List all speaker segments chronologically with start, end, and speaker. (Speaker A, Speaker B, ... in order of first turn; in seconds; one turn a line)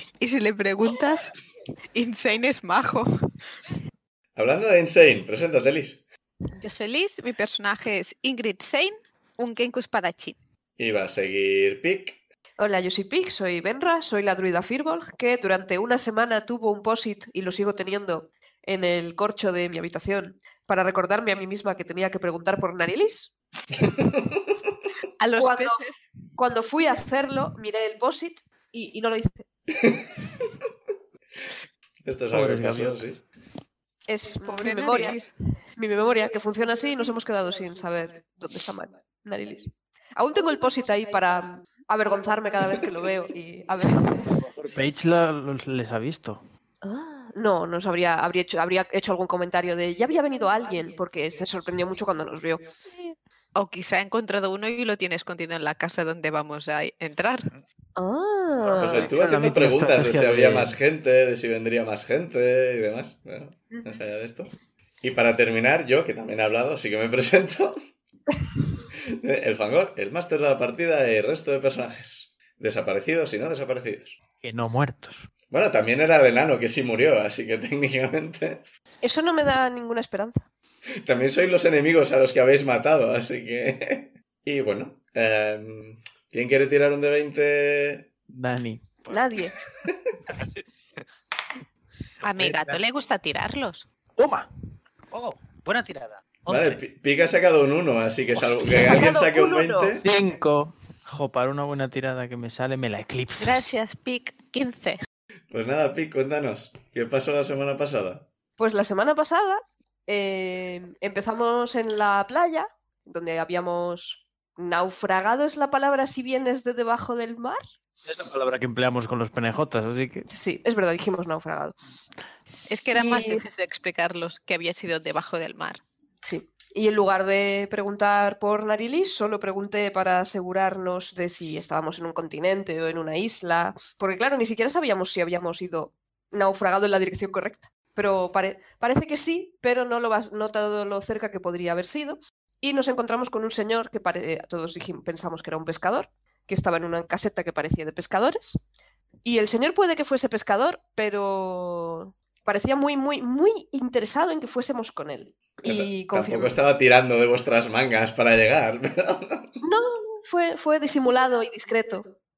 Speaker A: 0.2-1.3
Speaker A: 1.9-3.1
Speaker B: 4.3-6.0
Speaker A: 6.5-10.4
Speaker B: 10.8-12.2
Speaker C: 12.6-23.3
Speaker B: 23.7-24.7
Speaker A: 25.2-25.9
Speaker C: 25.4-25.8
Speaker C: 26.4-29.4
Speaker B: 29.7-30.7
Speaker B: 32.0-33.2
Speaker D: 32.3-33.2
Speaker C: 34.1-44.4
Speaker A: 34.4-35.3
Speaker D: 44.6-46.4
Speaker C: 46.8-52.7
Speaker A: 53.5-57.5
Speaker C: 58.0-59.1
Speaker B: 58.7-67.8
Speaker D: 58.9-60.8
Speaker B: 69.2-74.2
Speaker D: 74.4-75.3
Speaker B: 75.5-78.6
Speaker C: 79.0-80.4
Speaker B: 81.0-88.1
Speaker D: 88.3-88.9
Speaker C: 89.1-89.5
Speaker B: 89.9-90.2
Speaker E: 90.4-90.6
Speaker E: 92.2-92.8
Speaker A: 92.2-93.9
Speaker D: 94.2-94.5
Speaker E: 95.1-96.5
Speaker D: 96.5-96.8
Speaker B: 96.5-100.0
Speaker C: 98.6-99.9
Speaker D: 100.0-103.8
Speaker A: 103.4-105.0
Speaker B: 105.5-108.3
Speaker C: 108.6-117.6
Speaker D: 118.0-120.3
Speaker C: 120.3-121.8
Speaker A: 122.7-125.8
Speaker C: 122.9-123.4
Speaker C: 126.2-148.6
Speaker C: 149.2-156.6
Speaker B: 155.6-159.5
Speaker C: 159.6-162.1